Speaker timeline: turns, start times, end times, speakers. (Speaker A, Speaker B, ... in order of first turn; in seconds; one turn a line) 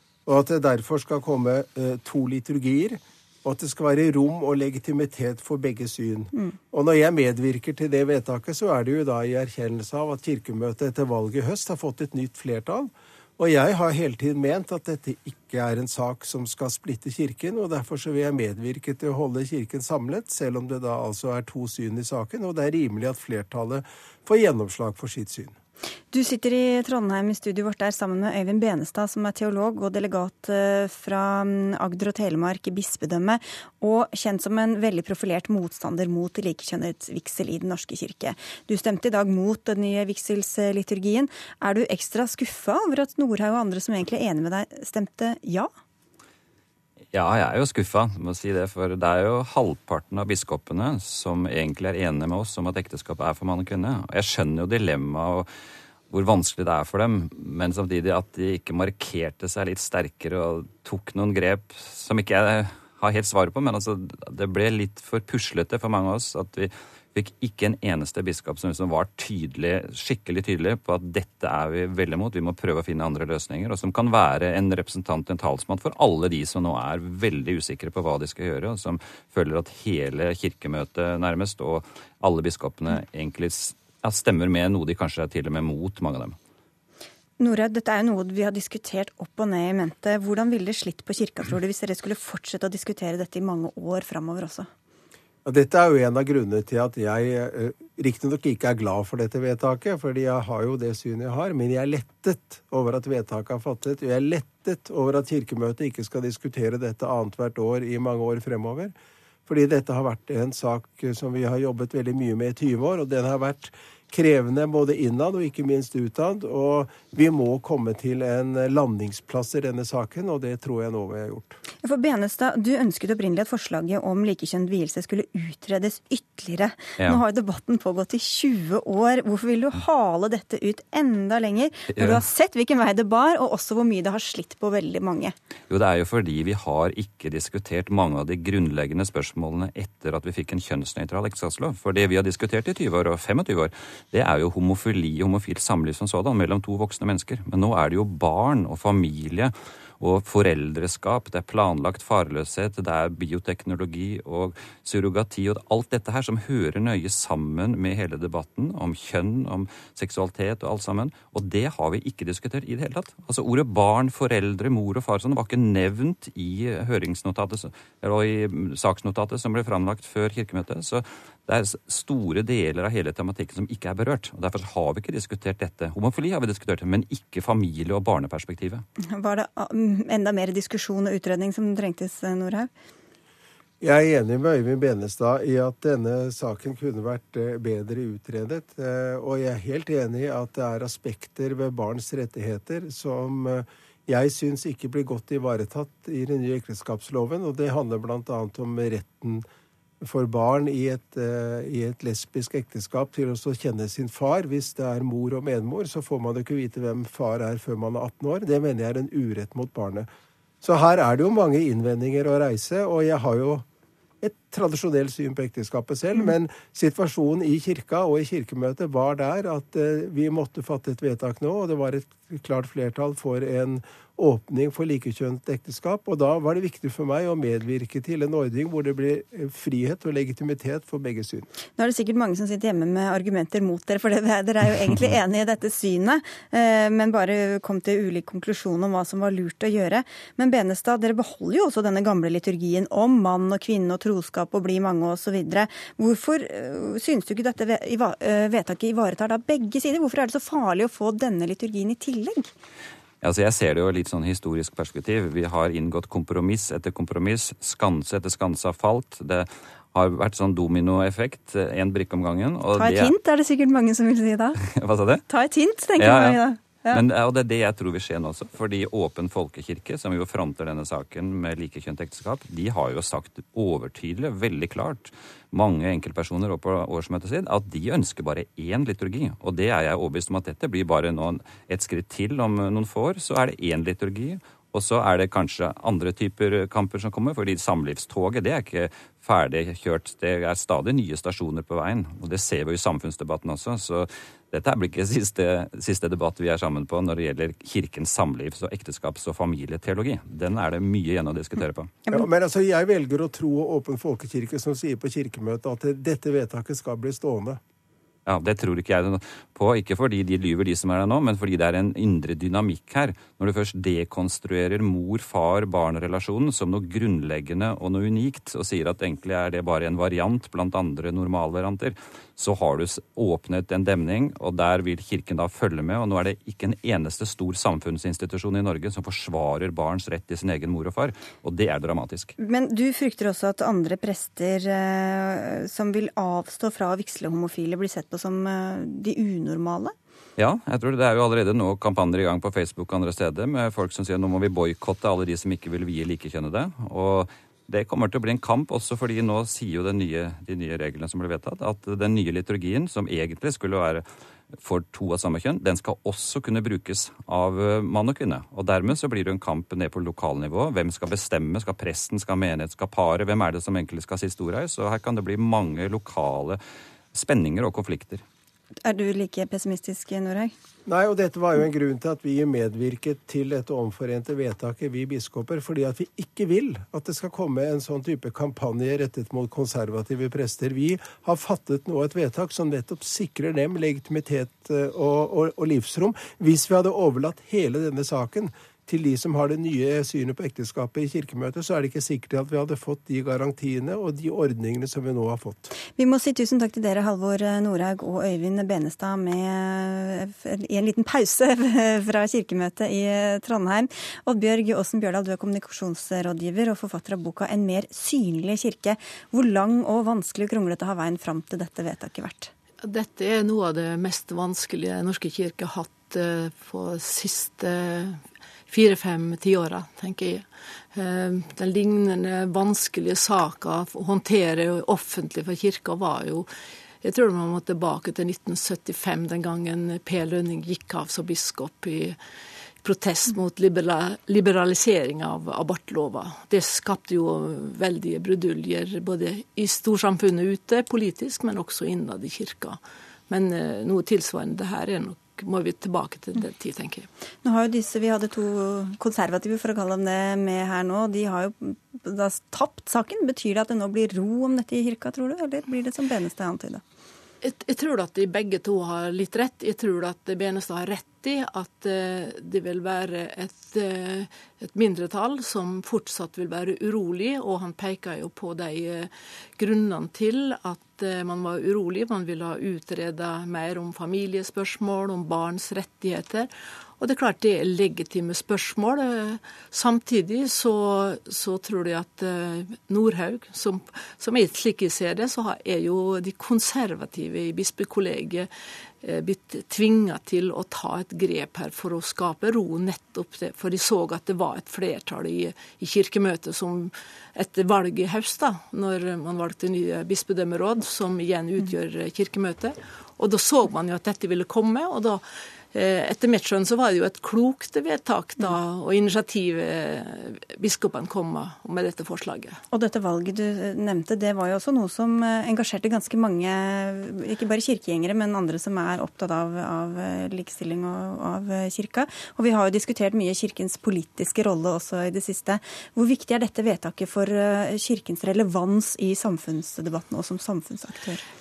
Speaker A: 0.2-25.5
Speaker B: 26.1-45.7
Speaker C: 47.1-55.5
Speaker C: 56.1-86.4
Speaker B: 87.4-94.7
Speaker A: 95.4-108.9
Speaker A: 109.5-121.6
Speaker B: 121.8-135.3
Speaker C: 131.9-132.2
Speaker C: 135.7-178.8
Speaker B: 179.1-182.7
Speaker A: 183.8-199.4
Speaker A: 200.0-210.1
Speaker A: 210.6-213.6
Speaker A: 214.2-231.5
Speaker B: 231.8-252.5
Speaker C: 253.2-263.1
Speaker B: 262.7-264.6
Speaker C: 264.6-265.2
Speaker B: 265.3-267.0
Speaker C: 266.0-266.4
Speaker C: 266.9-301.9
Speaker A: 302.1-307.6
Speaker C: 308.2-332.3
Speaker B: 332.4-339.9
Speaker C: 340.4-354.0
Speaker C: 354.6-366.6
Speaker C: 367.1-368.2
Speaker B: 368.8-370.5
Speaker A: 370.9-395.7
Speaker B: 395.9-412.5
Speaker D: 412.8-426.5
Speaker D: 427.0-432.2
Speaker D: 432.8-447.1
Speaker B: 447.4-456.8
Speaker D: 457.4-488.5
Speaker D: 489.0-512.6
Speaker B: 512.7-531.2